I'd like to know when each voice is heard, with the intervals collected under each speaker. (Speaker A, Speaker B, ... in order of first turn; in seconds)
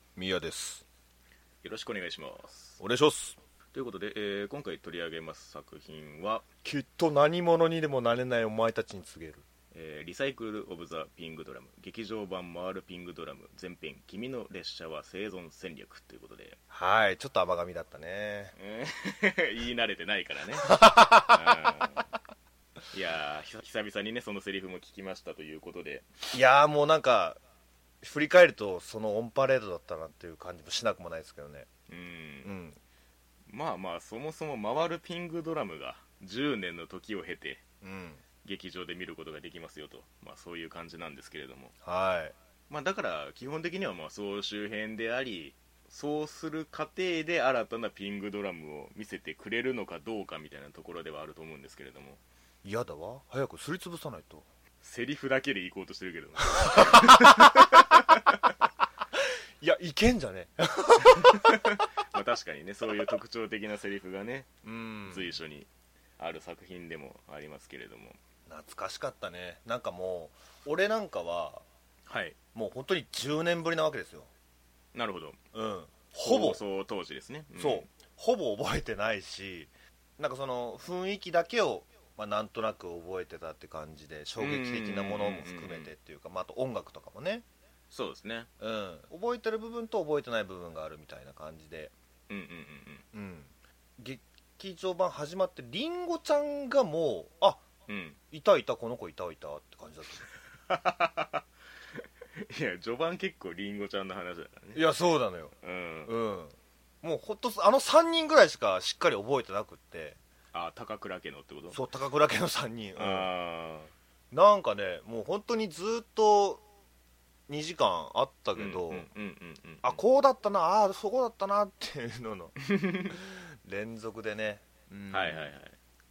Speaker A: 0.2-0.8, 2.8-3.4, 6.6-9.4, 16.7-18.5, 20.6-21.7, 26.3-27.4, 28.0-31.7, 32.4-32.8, 37.8-38.2, 41.8-42.4, 52.6-54.5, 56.6-57.7, 59.6-61.6, 64.6-65.4, 68.5-71.6, 72.5-74.3, 75.5-76.6, 77.5-87.5, 88.6-91.9, 93.1-97.6, 98.3-100.3, 104.7-110.2, 111.7-113.3, 114.3-116.6, 117.5-119.1, 119.8-122.5, 123.1-125.5
Speaker B: 1.6-2.8, 3.7-6.4, 9.7-16.6, 18.6-22.1, 22.9-26.1, 31.9-32.5, 33.5-37.6, 38.4-41.7, 42.7-52.2, 54.8-58.3, 61.3-64.5, 65.0-68.2, 72.1-72.3, 74.9-75.4, 76.2-77.9, 84.4-85.9, 87.9-88.5, 92.3-93.0, 97.9-98.2, 100.5-101.4, 102.0-104.9, 105.6-106.1, 110.5-111.8, 113.0-113.9, 118.5-120.0, 122.7-123.2, 125.1-125.8